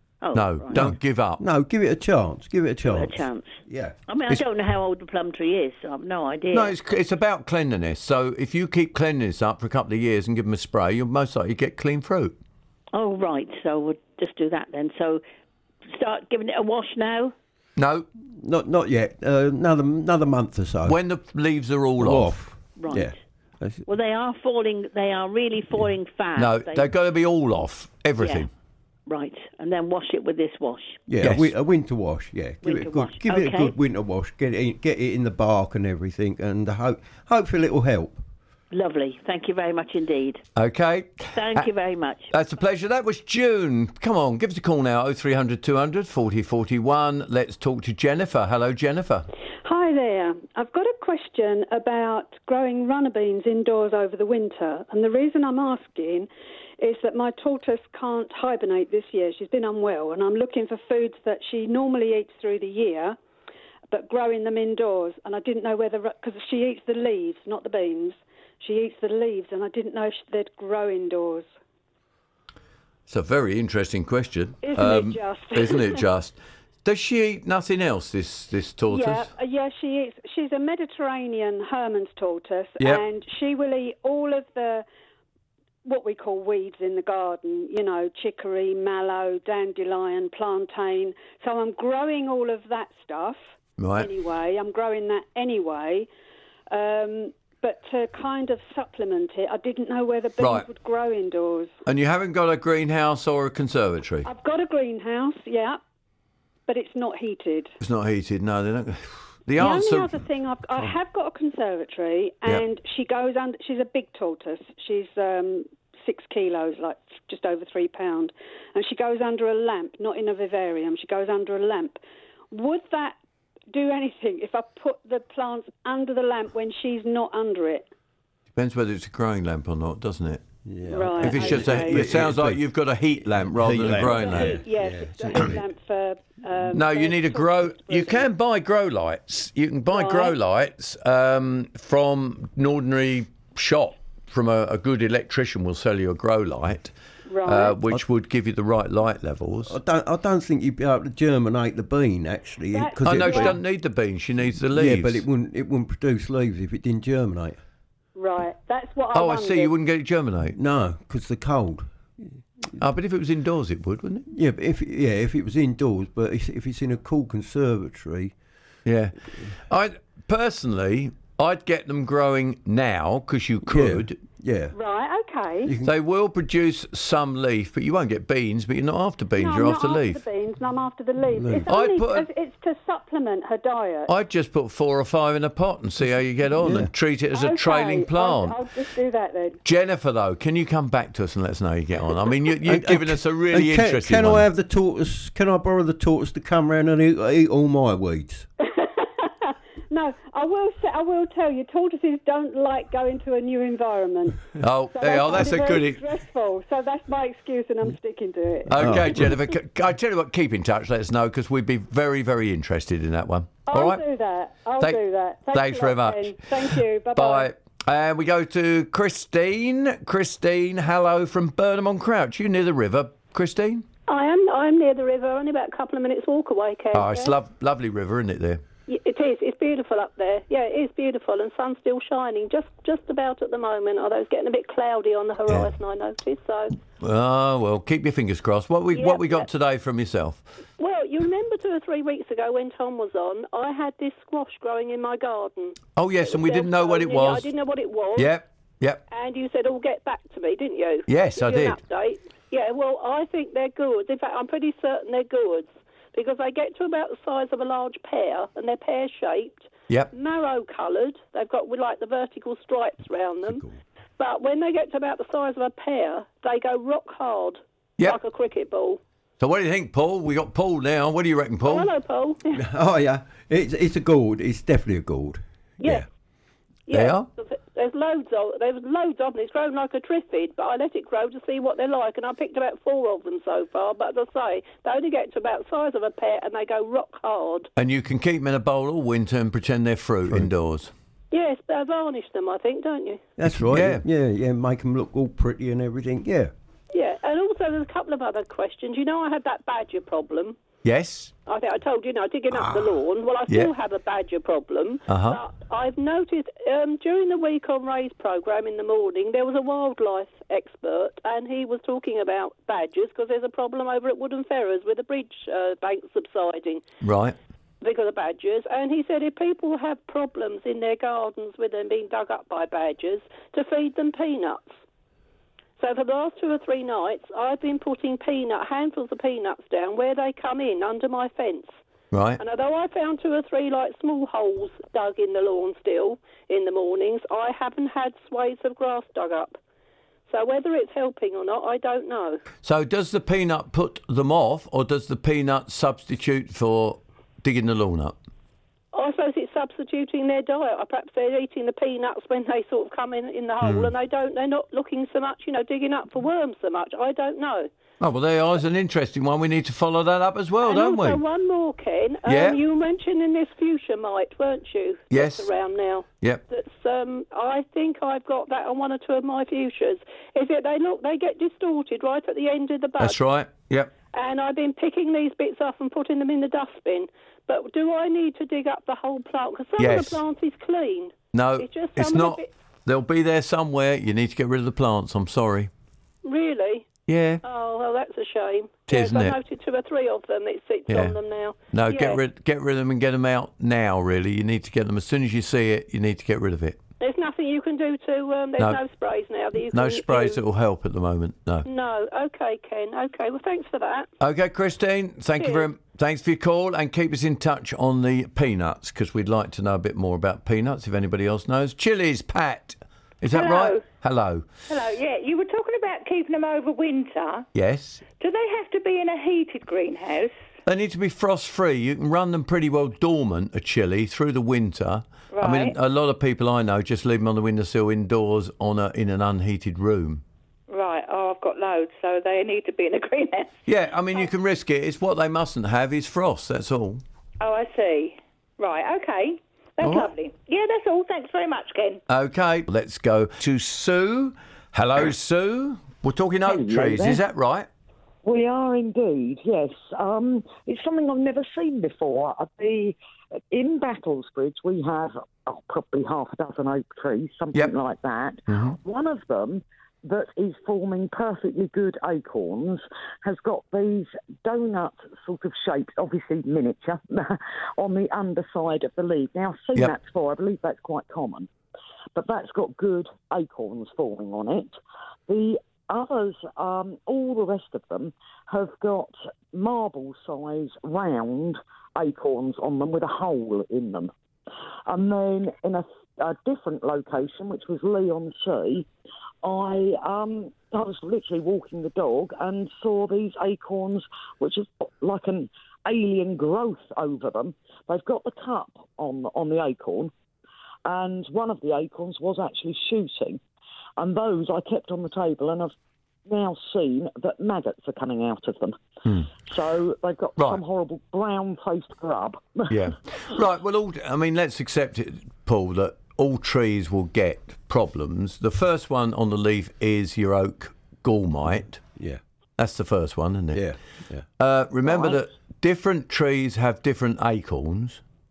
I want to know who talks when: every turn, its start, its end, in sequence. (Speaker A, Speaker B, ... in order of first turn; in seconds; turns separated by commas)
Speaker A: 0.2-0.9, Speaker B: 0.3-1.4, Speaker C: 0.7-4.0, Speaker A: 2.8-6.8, Speaker B: 6.5-12.4, Speaker A: 12.9-15.2, Speaker A: 15.9-17.3, Speaker B: 17.8-18.1, Speaker C: 18.3-21.0, Speaker B: 20.9-22.4, Speaker C: 22.0-23.9, Speaker A: 22.8-23.2, Speaker A: 23.9-26.9, Speaker B: 26.4-28.5, Speaker A: 28.2-28.5, Speaker A: 29.1-31.0, Speaker C: 31.1-38.2, Speaker B: 31.2-31.5, Speaker A: 32.6-33.8, Speaker A: 38.7-40.4, Speaker B: 40.6-41.7, Speaker A: 41.3-42.3, Speaker B: 42.3-49.2, Speaker D: 49.6-63.2, Speaker D: 63.9-71.5, Speaker B: 73.1-79.3, Speaker D: 74.6-76.0, Speaker D: 78.9-84.8, Speaker D: 85.8-96.1, Speaker B: 93.8-94.1, Speaker D: 96.7-101.7, Speaker B: 100.4-100.7, Speaker B: 101.9-104.3, Speaker D: 104.2-105.8, Speaker D: 106.7-107.8, Speaker B: 107.8-110.2, Speaker D: 109.6-122.0, Speaker D: 122.5-123.2, Speaker D: 123.7-127.9, Speaker B: 128.5-130.4, Speaker C: 130.7-132.6, Speaker D: 130.9-132.1, Speaker B: 131.2-134.6, Speaker C: 133.3-135.6, Speaker D: 133.9-138.3, Speaker B: 136.7-149.8, Speaker D: 139.9-140.4, Speaker D: 147.3-147.8, Speaker C: 149.7-153.6, Speaker D: 152.7-153.6, Speaker B: 153.0-155.2, Speaker C: 154.7-157.6, Speaker D: 158.2-159.7, Speaker B: 159.1-160.6, Speaker C: 160.6-161.9, Speaker B: 162.8-164.3, Speaker C: 164.3-168.3, Speaker B: 168.9-174.2, Speaker C: 173.7-174.8, Speaker D: 174.7-175.7, Speaker C: 175.7-175.9, Speaker B: 175.8-180.2, Speaker D: 179.4-184.1, Speaker C: 181.3-181.7, Speaker B: 181.7-182.3, Speaker B: 184.1-188.6, Speaker C: 186.6-186.9, Speaker D: 187.3-189.6, Speaker B: 189.6-194.5, Speaker C: 192.7-198.5, Speaker D: 198.6-209.2, Speaker B: 204.6-206.0, Speaker B: 208.7-214.0, Speaker C: 208.7-209.3, Speaker D: 213.7-217.5, Speaker B: 214.8-223.8, Speaker E: 224.1-227.3, Speaker B: 226.9-228.6, Speaker E: 228.9-236.8, Speaker B: 235.5-235.7, Speaker B: 237.0-240.5, Speaker E: 238.9-239.5, Speaker E: 240.8-248.3, Speaker B: 246.0-247.5, Speaker B: 248.2-249.0, Speaker E: 249.1-263.6, Speaker B: 251.1-251.8, Speaker C: 263.5-263.8, Speaker E: 264.2-269.0, Speaker B: 269.4-271.9, Speaker E: 271.6-272.6, Speaker C: 272.5-276.1, Speaker E: 276.9-287.7, Speaker B: 276.9-277.3, Speaker B: 287.8-290.9, Speaker E: 291.3-293.2, Speaker C: 293.4-296.5, Speaker B: 293.4-294.0, Speaker E: 296.9-300.6, Speaker B: 300.8-301.3, Speaker E: 301.5-316.8, Speaker B: 303.5-303.7, Speaker B: 305.1-305.4, Speaker B: 317.0-317.4, Speaker E: 317.8-324.8, Speaker E: 325.8-331.8, Speaker B: 332.1-332.4, Speaker E: 332.4-339.6, Speaker E: 340.3-342.4, Speaker B: 342.6-348.2, Speaker E: 348.9-357.7, Speaker B: 353.6-353.9, Speaker B: 358.0-361.2, Speaker E: 360.6-373.2, Speaker B: 362.3-362.6, Speaker B: 365.1-365.5, Speaker B: 373.0-373.9, Speaker E: 374.1-382.5, Speaker B: 379.8-380.2, Speaker B: 381.3-385.7, Speaker E: 386.2-386.9, Speaker B: 387.1-387.4, Speaker E: 387.4-392.2, Speaker B: 388.9-389.4, Speaker B: 390.9-391.2, Speaker B: 391.7-396.8, Speaker E: 397.0-400.4, Speaker B: 399.7-401.7, Speaker E: 401.6-404.1, Speaker B: 404.2-414.5, Speaker E: 405.4-405.7, Speaker F: 413.3-413.8, Speaker F: 414.7-417.5, Speaker B: 417.5-418.0, Speaker F: 418.2-420.4, Speaker B: 420.7-430.2, Speaker F: 425.3-425.8, Speaker F: 430.7-433.6, Speaker B: 433.7-437.0, Speaker F: 437.4-442.0, Speaker B: 439.8-440.1, Speaker B: 442.1-447.7, Speaker G: 446.4-447.2, Speaker G: 448.2-452.9, Speaker G: 453.5-471.5, Speaker B: 458.5-458.8, Speaker G: 472.1-474.7, Speaker G: 475.3-484.1, Speaker G: 484.9-488.9, Speaker G: 489.4-500.1, Speaker G: 500.9-503.4, Speaker G: 504.0-505.7, Speaker G: 506.3-508.8, Speaker G: 509.4-512.8, Speaker B: 510.4-510.6, Speaker B: 512.7-521.8, Speaker B: 522.6-523.6, Speaker C: 523.5-524.2, Speaker B: 524.4-528.0, Speaker G: 524.8-525.2